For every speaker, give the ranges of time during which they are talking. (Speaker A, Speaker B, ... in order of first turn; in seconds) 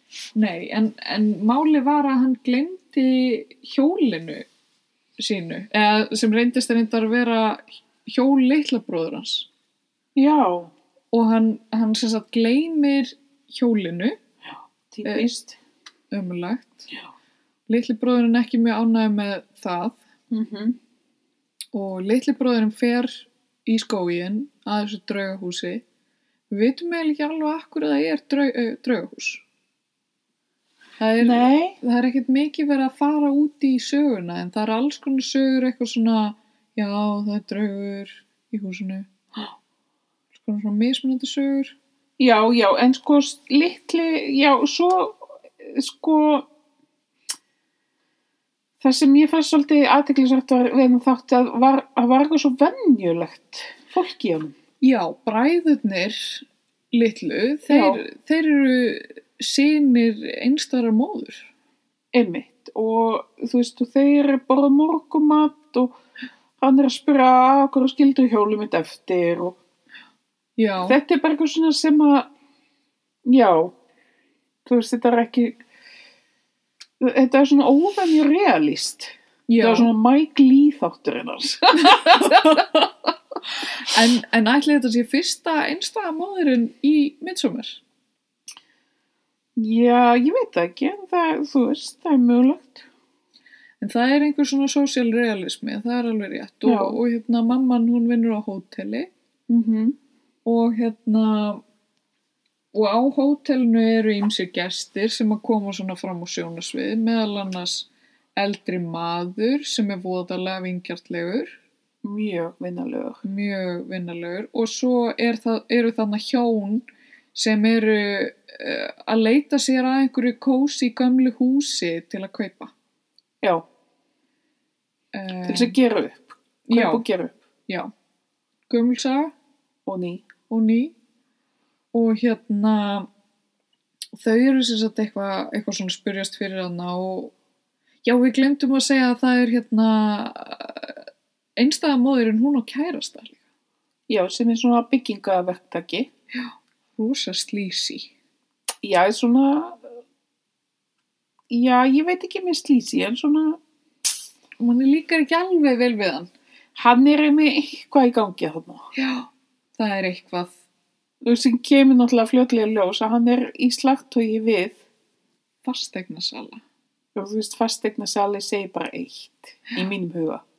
Speaker A: 0.3-4.5, 5.2-9.5, 11.1-14.2, 16.1-16.9, 17.7-20.0, 21.7-25.8, 26.5-29.4, 31.0-39.1, 40.3-41.8, 54.8-61.5, 70.6-71.0, 79.5-79.9, 81.9-82.9, 83.8-87.8, 93.8-99.1, 100.5-101.6, 102.7-111.6, 113.2-116.8, 117.3-122.7, 125.1-125.8, 126.7-127.0, 128.7-129.3, 130.5-130.9, 131.9-133.1, 134.2-137.3, 138.0-141.0, 141.6-143.4, 146.3-148.1, 154.6-156.3, 159.0-160.6, 165.7-166.6
Speaker B: 10.2-10.7, 14.9-15.6, 20.3-20.8, 31.2-31.8, 42.2-46.5, 48.8-54.5, 57.7-58.0, 62.1-66.0, 66.6-69.6, 70.8-72.3, 73.2-73.7, 74.7-75.6, 77.0-82.6, 89.6-92.9, 96.7-97.0, 99.5-100.0, 112.0-113.2, 125.5-127.4, 129.9-130.3, 144.1-146.1, 148.8-149.9, 151.5-153.6, 156.8-158.9, 161.2-164.8, 167.2-170.4